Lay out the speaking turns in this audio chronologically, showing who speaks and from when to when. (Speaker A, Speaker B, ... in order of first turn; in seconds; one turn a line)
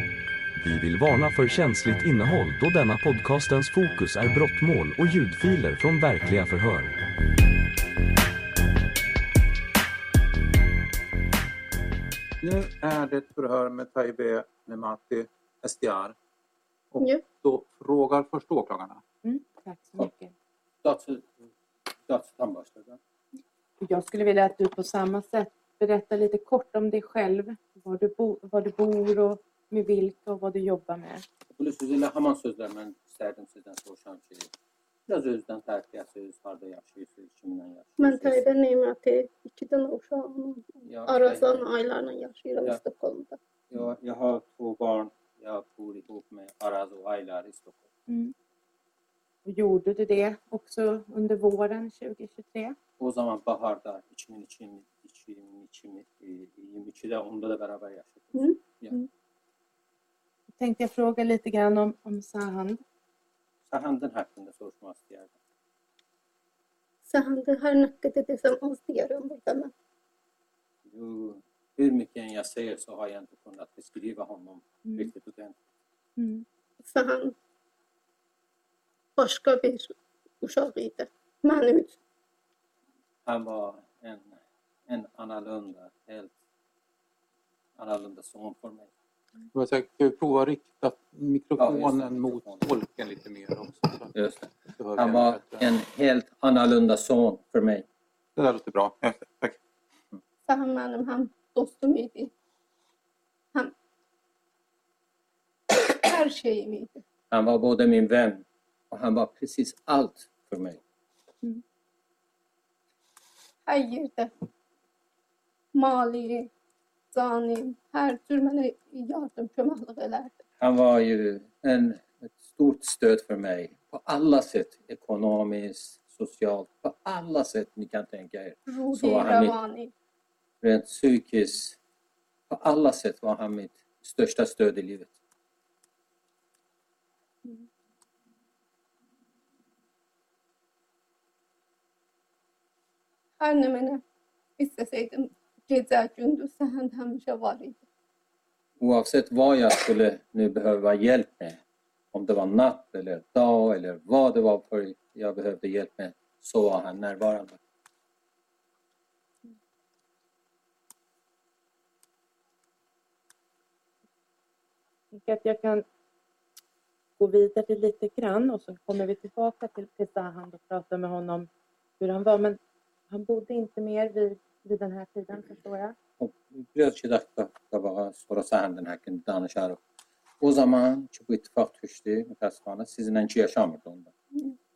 Speaker A: 0.5-7.0
Speaker B: 12.4-16.1
Speaker B: 16.9-19.0
Speaker C: 19.2-20.3
Speaker D: 20.8-21.4
Speaker D: 22.1-23.0
Speaker C: 23.8-31.2
Speaker D: 31.6-34.5
Speaker D: 35.1-38.5
Speaker E: 38.0-43.4
Speaker D: 40.8-41.6
Speaker D: 43.7-47.9
Speaker C: 48.1-48.3
Speaker C: 49.5-52.8
Speaker D: 53.0-58.9
Speaker C: 60.6-62.8
Speaker D: 63.7-65.3
Speaker E: 67.0-69.7
Speaker D: 70.9-75.6
Speaker C: 74.8-75.1
Speaker C: 76.2-76.4
Speaker E: 76.8-77.4
Speaker E: 79.2-82.0
Speaker D: 83.2-86.3
Speaker D: 87.8-88.9
Speaker B: 89.5-94.1
Speaker D: 91.6-92.7
Speaker D: 94.1-97.9
Speaker B: 94.8-95.7
Speaker B: 98.4-99.6
Speaker E: 100.5-102.3
Speaker E: 105.7-107.0
Speaker D: 107.3-110.8
Speaker E: 113.7-114.3
Speaker E: 115.7-116.5
Speaker E: 117.1-120.4
Speaker D: 120.6-129.5
Speaker E: 128.7-129.9
Speaker D: 130.6-131.8
Speaker D: 132.5-135.2
Speaker E: 143.4-144.0
Speaker E: 144.6-147.8
Speaker D: 148.8-151.6
Speaker D: 152.1-157.6
Speaker C: 165.1-165.8
Speaker C: 167.2-171.5
Speaker C: 172.0-172.6
Speaker C: 173.1-175.9
Speaker D: 176.2-179.8
Speaker D: 180.4-184.1